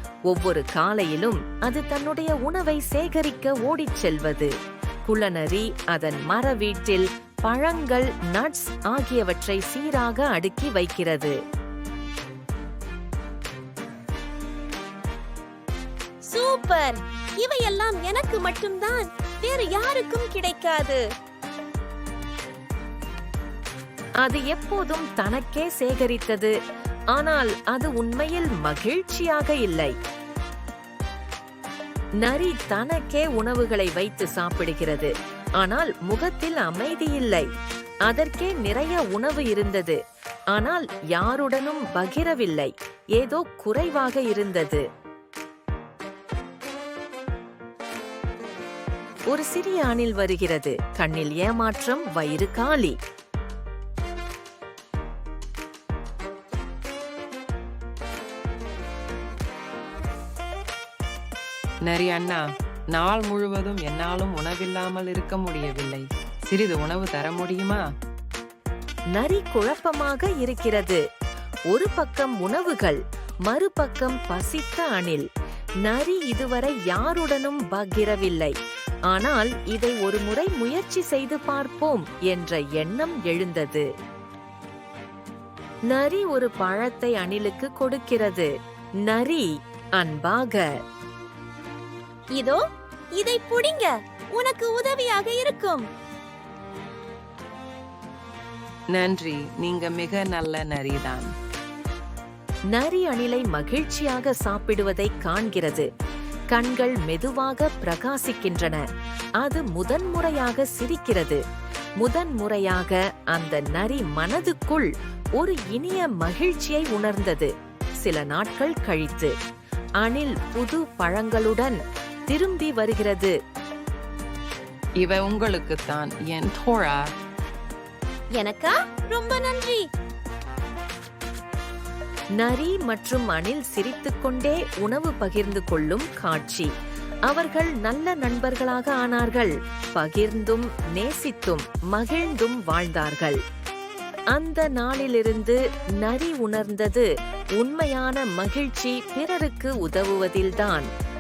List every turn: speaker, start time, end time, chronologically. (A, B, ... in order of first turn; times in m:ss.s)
0:00.3-0:04.5 A
0:05.1-0:11.4 A
0:16.3-0:21.0 B
0:24.2-0:26.5 A
0:27.1-0:30.0 A
0:32.2-0:37.5 A
0:38.1-0:40.0 A
0:40.5-0:44.8 A
0:49.3-0:53.0 A
1:01.8-1:07.8 C
1:09.2-1:11.0 A
1:11.7-1:15.3 A
1:15.8-1:18.6 A
1:19.1-1:23.9 A
1:25.9-1:28.5 A
1:29.0-1:30.7 A
1:32.3-1:32.6 B
1:33.2-1:35.9 B
1:38.9-1:41.3 C
1:42.7-1:45.9 A
1:46.5-1:48.8 A
1:49.4-1:51.4 A
1:52.0-1:59.3 A
2:00.0-2:01.8 A
2:02.3-2:03.4 A
2:05.0-2:07.0 C
2:08.4-2:09.8 B
2:12.4-2:16.7 A
2:17.3-2:23.4 A
2:24.3-2:30.9 A